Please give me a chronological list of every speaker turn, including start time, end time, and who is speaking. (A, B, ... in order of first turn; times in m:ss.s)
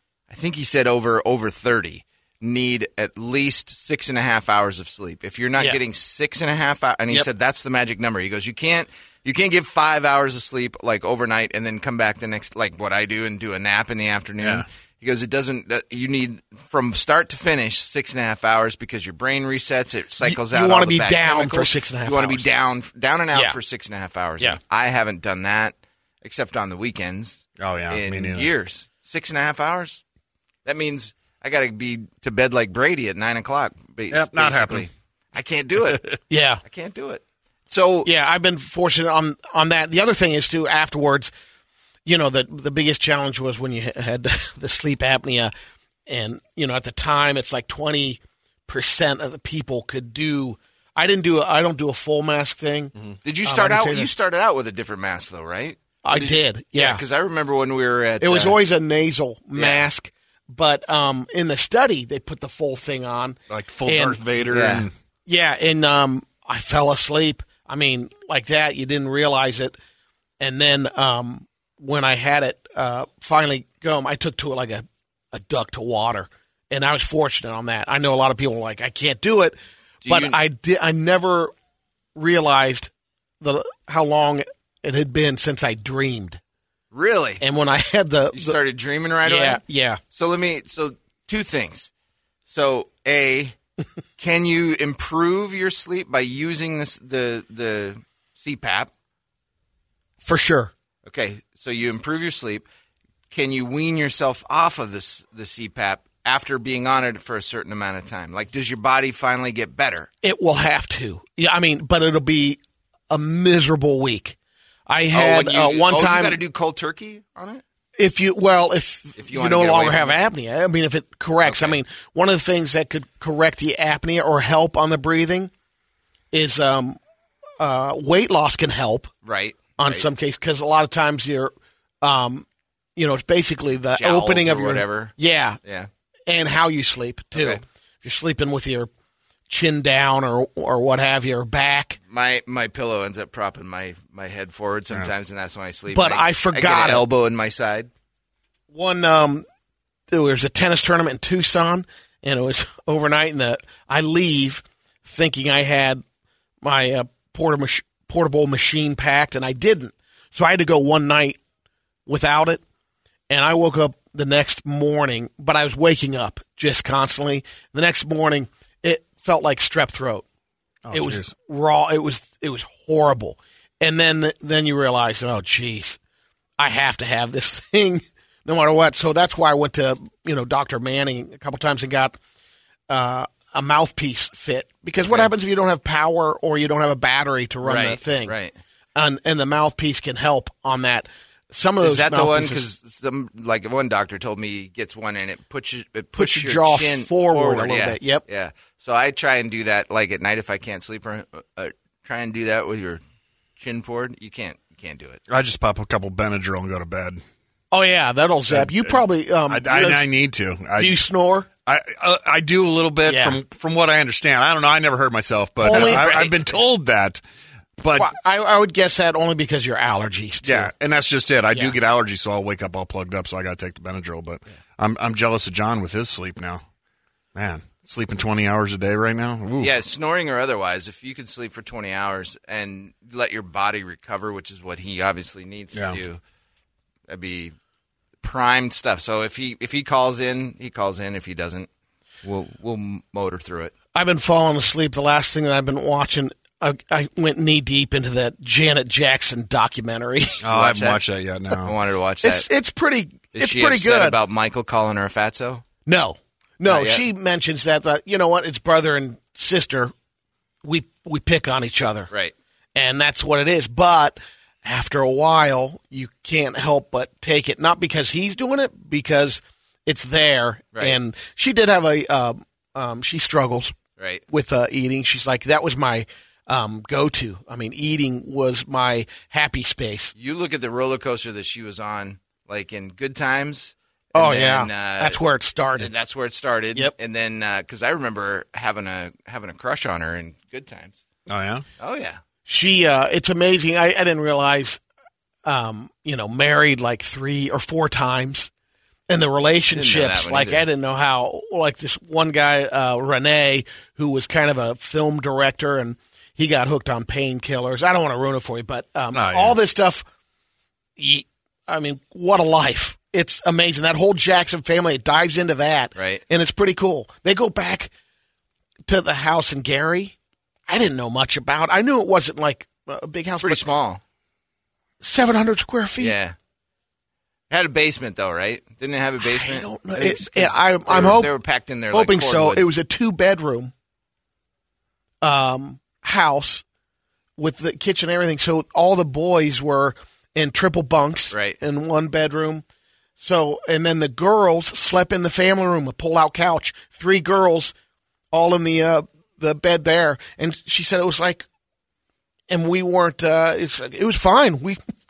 0:00.3-0:30.0 A
0:14.4-0:14.6 B
0:20.2-0:22.4 C
0:27.6-0:28.5 B
0:30.6-0:38.1 A
0:34.1-0:34.9 B
0:36.3-0:36.6 C
0:38.0-0:41.3 C
0:42.0-0:45.5 C
0:46.1-0:52.9 C
0:53.2-0:58.6 A
0:53.4-0:54.1 C
0:56.0-0:57.0 C
0:58.2-1:04.2 C
0:59.5-0:59.8 A
1:03.5-1:04.9 B
1:04.4-1:04.9 A
1:05.3-1:09.8 C
1:10.4-1:19.5 C
1:20.0-1:20.4 A
1:20.1-1:21.5 C
1:22.2-1:22.9 C
1:23.4-1:26.4 C
1:26.9-1:27.4 A
1:27.4-1:28.6 C
1:28.3-1:29.6 A
1:29.2-1:30.0 C
1:30.1-1:31.9 A
1:32.4-1:33.5 A
1:34.2-1:38.9 A
1:40.2-1:40.7 C
1:41.0-1:42.6 A
1:43.3-1:50.1 A
1:50.2-1:52.6 C
1:53.1-1:54.4 C
1:54.9-1:56.4 C
1:55.1-1:57.6 A
1:58.0-2:05.5 C
1:59.2-2:00.2 A
2:01.4-2:01.8 A
2:06.3-2:07.0 C
2:07.6-2:09.1 C
2:09.2-2:10.0 A
2:09.8-2:12.4 C
2:13.0-2:15.6 C
2:14.0-2:15.1 A
2:16.3-2:18.9 C
2:17.3-2:17.6 A
2:19.5-2:22.0 C
2:22.1-2:27.9 A
2:25.9-2:27.0 C
2:28.7-2:29.4 C
2:30.1-2:36.0 C
2:36.6-2:41.4 C
2:42.1-2:42.6 C
2:43.3-2:50.2 C
2:50.8-2:51.3 B
2:50.9-2:56.0 C
2:56.6-3:02.2 C
3:02.9-3:08.3 C
3:05.0-3:05.3 A
3:07.6-3:08.5 A
3:08.9-3:12.6 C
3:11.8-3:23.0 A
3:16.2-3:18.2 C
3:23.6-3:25.2 A
3:25.3-3:27.2 B
3:27.7-3:30.1 C
3:28.5-3:31.0 B
3:30.8-3:31.5 C
3:31.6-3:37.2 B
3:33.0-3:33.4 C
3:35.6-3:36.3 C
3:35.6-3:36.3 A
3:37.8-3:38.1 B
3:38.0-3:40.7 C
3:40.4-3:46.6 B
3:47.3-3:49.7 B
3:49.6-3:56.2 A
3:55.7-3:56.0 B
3:57.1-3:57.5 A
3:58.2-4:01.7 A
4:02.2-4:03.7 A
4:03.9-4:10.4 C
4:10.4-4:11.7 B
4:10.5-4:11.0 A
4:11.6-4:12.5 A
4:12.2-4:14.2 C
4:13.3-4:15.6 A
4:15.8-4:19.9 C
4:16.6-4:17.0 A
4:20.6-4:22.1 C
4:22.7-4:33.8 C
4:34.0-4:34.2 A
4:34.3-4:40.1 C
4:40.2-4:45.2 A
4:44.1-4:45.9 C
4:45.8-4:51.0 A
4:51.3-4:51.6 B
4:51.8-4:52.2 A
4:52.5-4:54.8 C
4:55.4-4:58.5 C
4:59.1-5:10.0 C
4:59.7-5:00.6 A
5:09.1-5:09.6 B
5:11.0-5:17.9 C
5:16.0-5:16.2 A
5:18.9-5:20.1 C
5:20.7-5:23.6 C
5:23.4-5:24.0 A
5:25.0-5:26.1 C
5:26.0-5:26.3 A
5:27.5-5:32.6 A
5:29.2-5:31.3 C
5:31.9-5:33.7 C
5:35.2-5:36.6 C
5:37.4-5:42.6 C
5:41.3-5:41.6 A
5:43.2-5:47.7 C
5:48.3-5:51.4 C
5:52.5-5:54.8 C